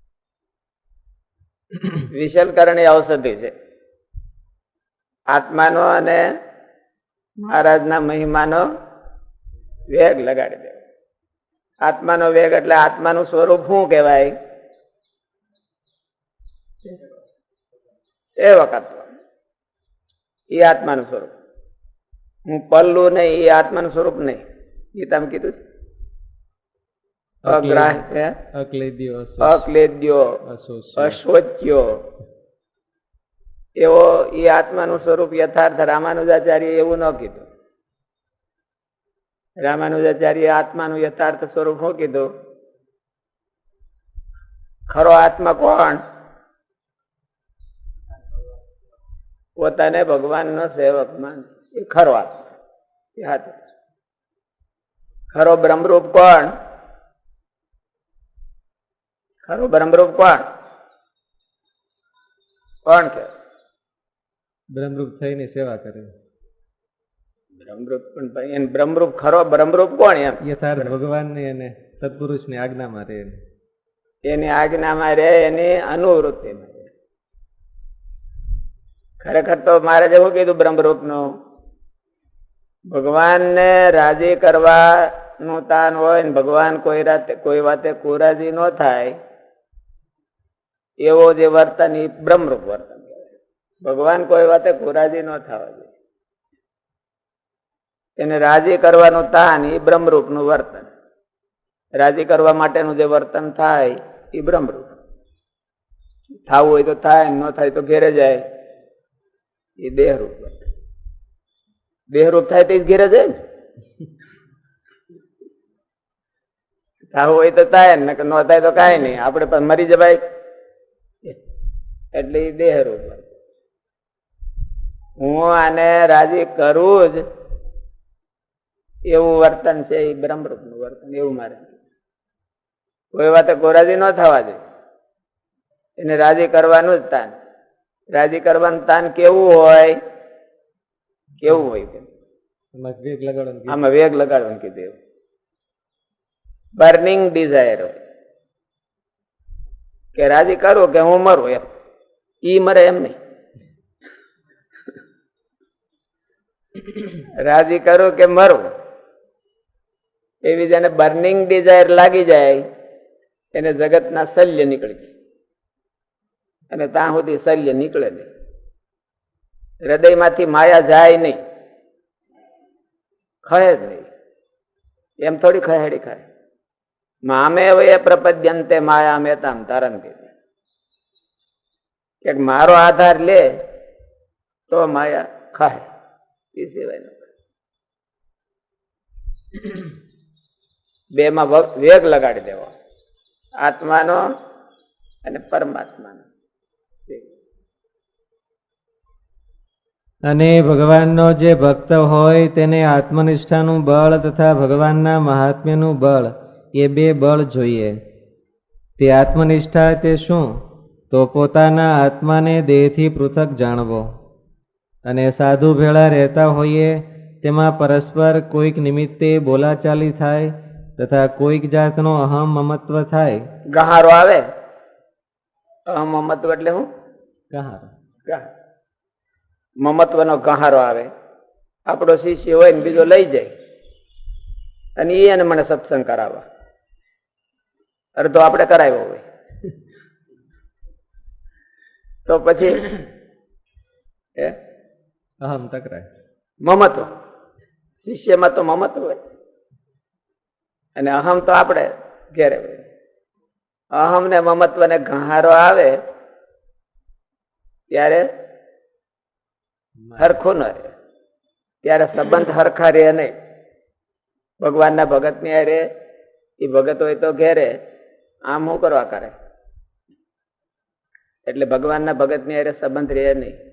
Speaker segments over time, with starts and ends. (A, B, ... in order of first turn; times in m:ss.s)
0:01.9-0:03.5 A
0:05.3-0:06.3 A
0:07.4-0:08.6 A
0:09.9-0:10.8 A
0:11.8-0:14.3 A
0:18.3-0:19.1 A
0:20.5-0:21.3 A
0:22.4-0:24.4 A
0:24.9-0:25.6 A
0:27.4-0:29.7 B
0:27.4-0:28.4 A
0:29.4-0:30.4 A
0:30.4-0:31.2 B
0:31.0-0:32.0 A
0:33.8-0:37.5 A
0:39.6-0:42.3 A
0:44.9-0:46.0 A
0:49.6-0:52.5 A
0:53.2-0:53.6 A
0:55.3-0:56.5 A
0:59.4-1:00.4 A
1:02.8-1:03.3 A
1:04.7-1:06.1 B
1:07.6-1:10.9 A
1:10.4-1:13.4 B
1:14.2-1:16.9 A
1:19.2-1:21.3 A
1:22.9-1:29.2 A
1:31.0-1:35.9 A
1:38.2-1:40.9 A
1:42.0-1:45.0 A
1:46.4-1:48.4 A
1:49.8-1:50.6 A
1:52.1-1:53.4 A
1:57.1-2:00.2 A
2:02.1-2:03.3 A
2:05.2-2:07.2 A
2:09.1-2:11.8 A
2:13.1-2:14.6 A
2:16.0-2:17.4 A
2:18.1-2:20.0 A
2:21.4-2:22.1 A
2:22.7-2:23.8 B
2:23.7-2:25.0 A
2:26.8-2:28.0 A
2:30.2-2:31.6 A
2:32.4-2:33.2 A
2:37.0-2:38.7 A
2:40.4-2:42.7 A
2:43.5-2:45.1 A
2:46.7-2:48.3 A
2:49.8-2:51.4 A
2:53.4-2:54.1 A
2:55.2-2:56.2 A
2:57.3-3:00.3 A
3:02.2-3:03.5 A
3:04.7-3:05.9 A
3:06.5-3:07.3 A
3:11.2-3:12.7 A
3:13.6-3:14.2 A
3:15.2-3:16.3 A
3:17.1-3:17.4 A
3:20.3-3:27.9 B
3:29.0-3:30.5 B
3:31.1-3:34.0 B
3:35.1-3:43.4 B
3:43.7-3:44.4 A
3:45.9-3:46.9 A
3:47.5-3:47.9 B
3:49.8-3:51.1 A
3:51.9-3:53.5 A
3:55.0-3:56.4 A
3:58.2-3:59.2 A
4:02.3-4:03.0 A
4:05.4-4:06.1 B
4:06.6-4:07.1 A
4:08.0-4:09.2 A
4:11.0-4:12.8 A
4:13.9-4:16.0 A
4:17.9-4:18.3 A
4:20.1-4:20.4 B
4:20.2-4:20.9 A
4:21.8-4:23.3 A
4:24.6-4:25.9 A
4:26.6-4:27.8 A
4:28.4-4:29.4 A
4:31.4-4:33.6 A